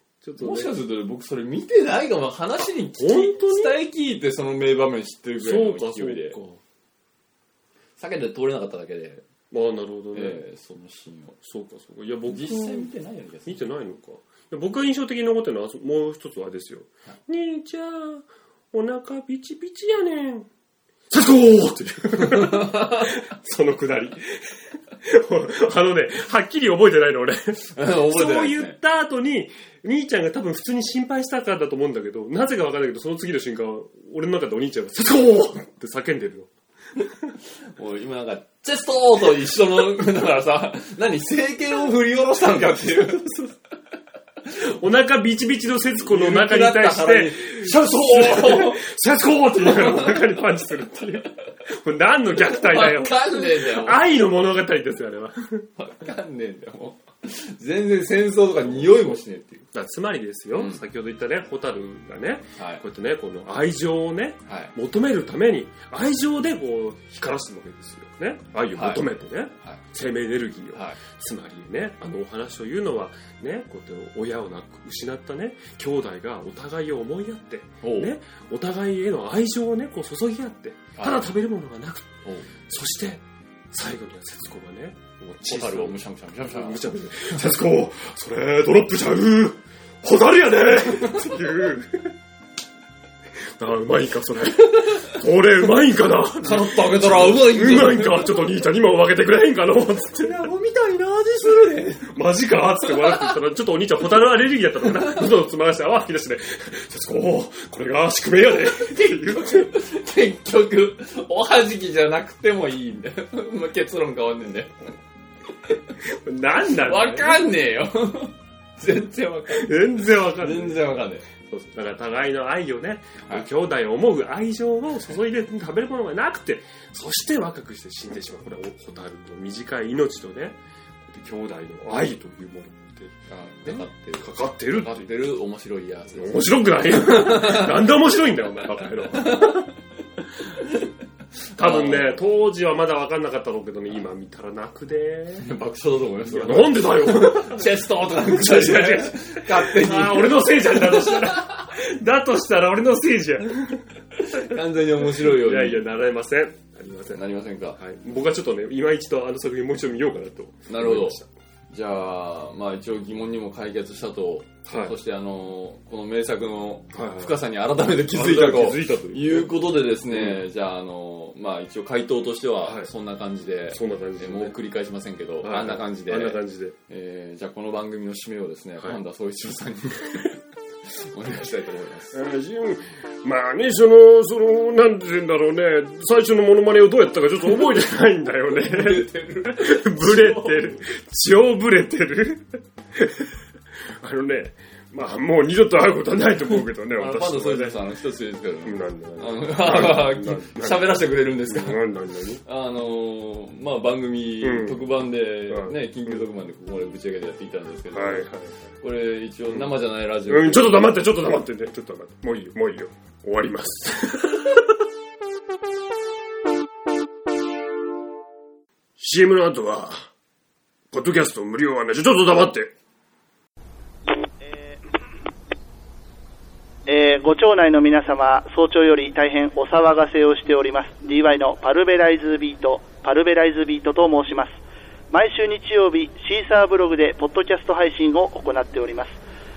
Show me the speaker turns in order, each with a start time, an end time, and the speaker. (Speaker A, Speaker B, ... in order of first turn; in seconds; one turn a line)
Speaker A: 0.2-0.7
Speaker B: 0.4-6.4
Speaker A: 3.0-3.8
Speaker A: 5.4-6.6
Speaker B: 8.0-9.2
Speaker A: 9.5-10.4
Speaker B: 10.1-11.4
Speaker A: 11.4-12.9
Speaker B: 12.3-13.6
Speaker A: 13.5-20.5
Speaker A: 21.1-36.5
Speaker B: 22.2-23.2
Speaker B: 27.7-28.8
Speaker B: 37.7-43.5
Speaker A: 44.6-55.7
Speaker B: 46.0-48.9
Speaker B: 49.6-50.4
Speaker B: 52.4-54.0
Speaker B: 55.8-59.7
Speaker A: 58.6-59.2
Speaker A: 59.7-92.1
Speaker B: 60.6-60.8
Speaker B: 62.6-62.8
Speaker B: 64.5-64.8
Speaker B: 68.7-69.8
Speaker B: 70.7-71.0
Speaker B: 77.8-78.1
Speaker B: 81.0-81.2
Speaker B: 82.2-82.5
Speaker B: 85.4-86.8
Speaker A: 93.6-100.5
Speaker B: 96.4-98.5
Speaker B: 100.2-102.1
Speaker A: 102.0-109.7
Speaker B: 108.6-115.0
Speaker A: 116.0-117.5
Speaker B: 116.8-121.3
Speaker A: 119.5-135.1
Speaker B: 133.3-137.9
Speaker A: 136.1-139.7
Speaker B: 139.1-139.7
Speaker B: 141.6-142.2
Speaker A: 141.6-145.5
Speaker B: 145.4-151.6
Speaker A: 146.2-161.3
Speaker B: 154.2-155.9
Speaker B: 157.1-157.8
Speaker B: 160.7-182.2
Speaker A: 164.7-165.0
Speaker A: 166.9-167.4
Speaker A: 168.1-170.4
Speaker A: 172.6-172.9
Speaker A: 173.7-174.6
Speaker A: 175.4-176.8
Speaker A: 182.1-193.3
Speaker B: 188.6-190.8
Speaker A: 194.0-197.8
Speaker B: 196.9-201.8
Speaker A: 198.6-202.4
Speaker B: 202.4-208.3
Speaker A: 204.4-206.2
Speaker A: 207.9-208.6
Speaker B: 208.8-211.0
Speaker A: 209.5-214.8
Speaker A: 219.0-220.1
Speaker A: 220.9-222.7
Speaker C: 224.4-224.8
Speaker C: 226.9-234.6
Speaker C: 235.1-239.2